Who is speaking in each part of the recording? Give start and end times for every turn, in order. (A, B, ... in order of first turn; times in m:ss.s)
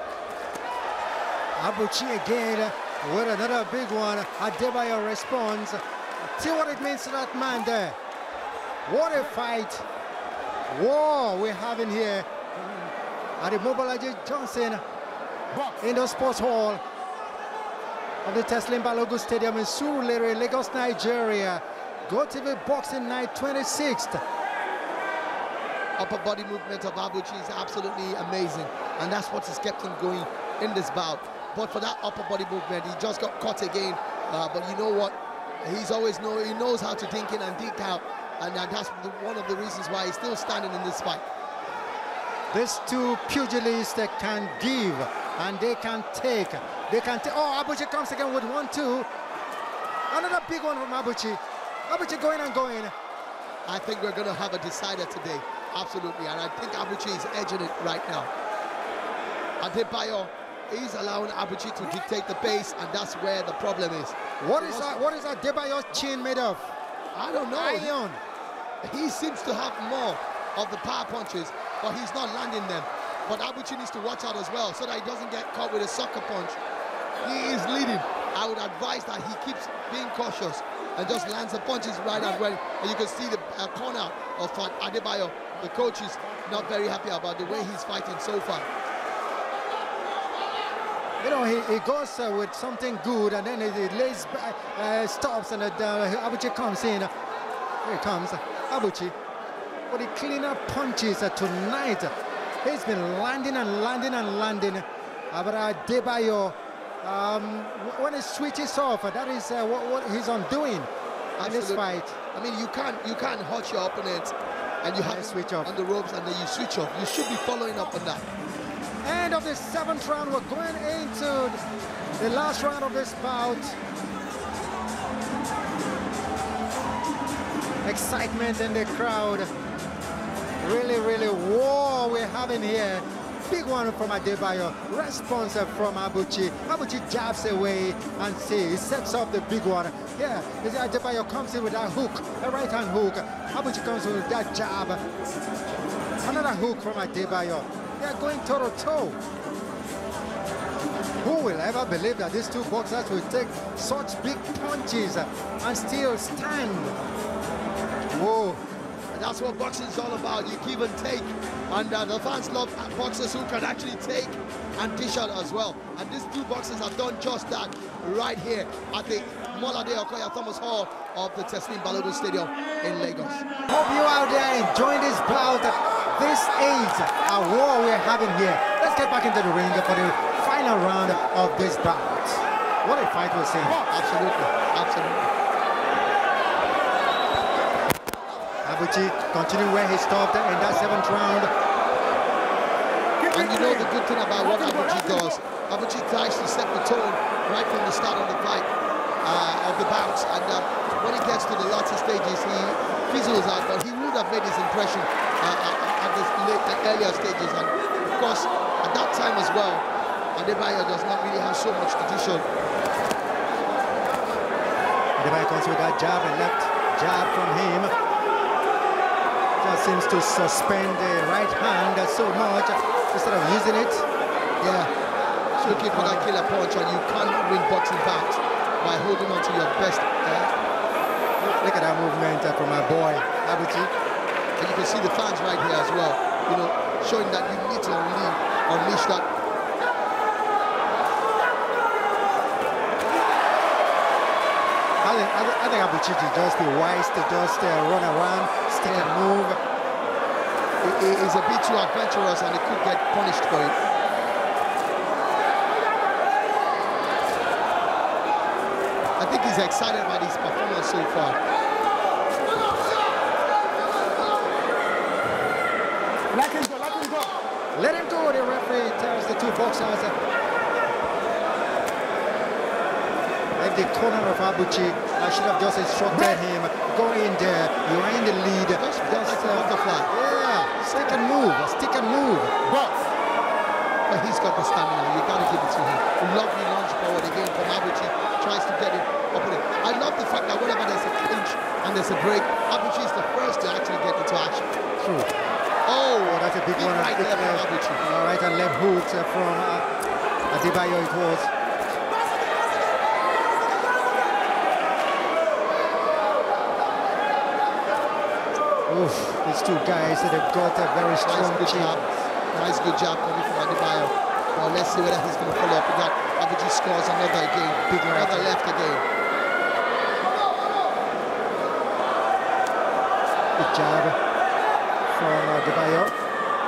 0:01.6-0:08.0 A
0:08.9-0:09.9 A
0:10.7-0:12.3 A
0:12.6-0:12.9 B
0:13.4-0:14.8 A
0:15.5-0:15.8 B
0:15.8-0:16.8 A
0:18.2-0:24.2 A
0:26.0-0:41.2 C
0:42.5-0:49.1 A
0:50.1-0:52.9 A
0:53.6-0:58.3 C
0:59.6-1:05.0 C
1:04.4-1:06.7 A
1:07.1-1:07.9 C
1:07.5-1:08.2 A
1:08.8-1:16.6 C
1:17.2-1:28.7 C
1:26.2-1:26.6 B
1:31.2-1:37.1 A
1:37.8-1:39.1 A
1:39.9-1:42.1 A
1:42.6-1:50.9 A
1:51.4-1:58.2 C
1:51.4-1:52.2 A
1:55.0-1:55.7 A
1:59.0-2:01.6 A
2:02.2-2:03.8 A
2:07.8-2:09.5 A
2:10.6-2:25.0 A
2:26.2-2:29.2 A
2:31.2-2:37.0 A
2:38.1-2:38.6 A
2:39.1-2:53.4 C
2:53.7-3:03.8 A
3:03.9-3:05.3 C
3:08.6-3:11.5 A
3:13.2-3:15.4 B
3:13.3-3:18.7 C
3:19.2-3:29.8 C
3:30.4-3:32.4 C
3:35.2-3:37.9 A
3:39.6-3:44.0 A
3:44.6-3:44.9 C
3:45.6-3:46.3 A
3:45.6-3:50.5 C
3:51.4-3:53.9 A
3:54.6-3:59.3 C
4:05.0-4:09.6 A
4:10.8-4:13.8 C
4:19.2-4:21.4 C
4:26.3-4:27.3 B
4:27.7-4:30.1 A
4:33.6-4:42.5 A
4:38.8-4:40.1 C
4:40.9-4:41.2 C
4:42.6-4:43.1 B
4:44.1-4:54.7 C
4:55.0-4:55.3 A
4:55.8-4:58.0 C
4:56.2-4:59.8 A
5:00.5-5:01.5 A
5:08.9-5:12.1 A
5:11.2-5:19.0 C
5:17.8-5:18.5 A
5:23.6-5:24.2 A
5:25.1-5:26.1 A